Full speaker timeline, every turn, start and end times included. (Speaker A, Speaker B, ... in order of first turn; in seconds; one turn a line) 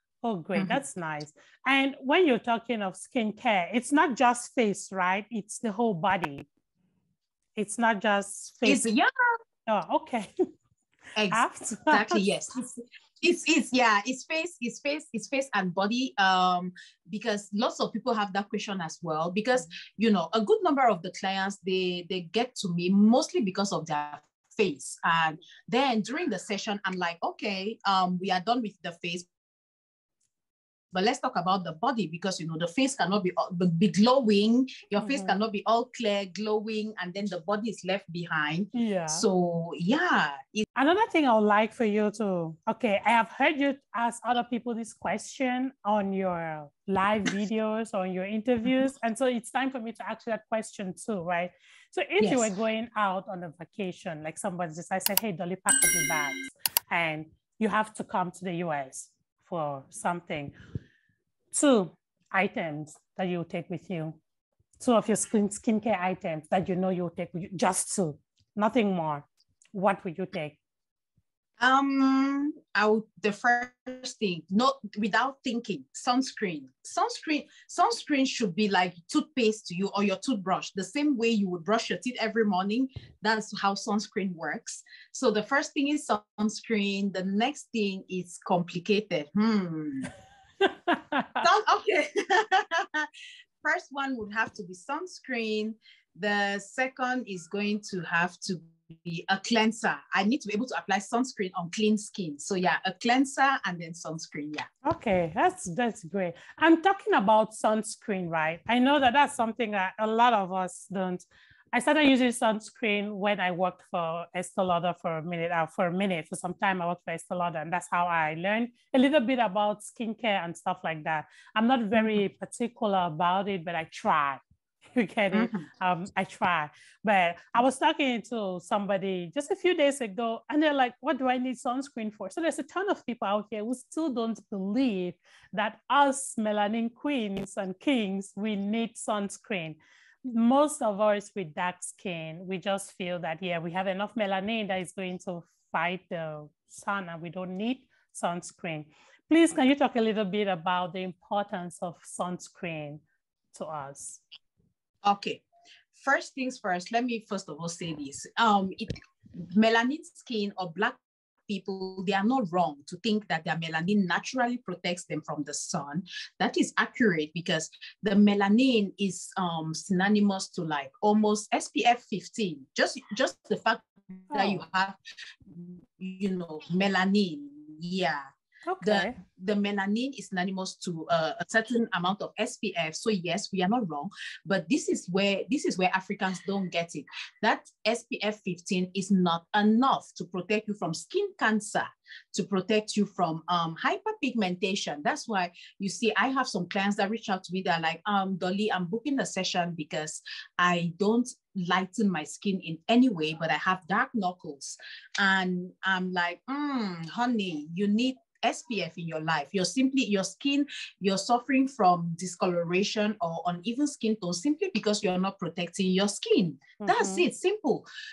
Speaker A: 0.2-6.5
Speaker B: 0.6-0.8
Speaker A: 7.5-8.8
Speaker B: 8.6-9.1
Speaker A: 9.7-10.4
Speaker B: 11.2-29.3
Speaker A: 11.3-12.2
Speaker B: 30.9-40.6
Speaker A: 35.0-35.4
Speaker A: 38.7-39.2
Speaker A: 40.8-60.5
Speaker B: 52.2-52.5
Speaker A: 61.5-64.2
Speaker A: 64.8-70.6
Speaker B: 71.6-90.1
Speaker A: 90.6-91.4
Speaker B: 91.4-93.1
Speaker B: 93.6-104.7
Speaker A: 104.8-124.4
Speaker A: 124.9-153.0
Speaker B: 125.3-125.7
Speaker A: 153.5-154.2
Speaker B: 155.0-155.4
Speaker B: 155.9-178.2
Speaker A: 174.3-174.6
Speaker A: 178.7-179.2
Speaker B: 178.8-217.9
Speaker A: 216.8-217.3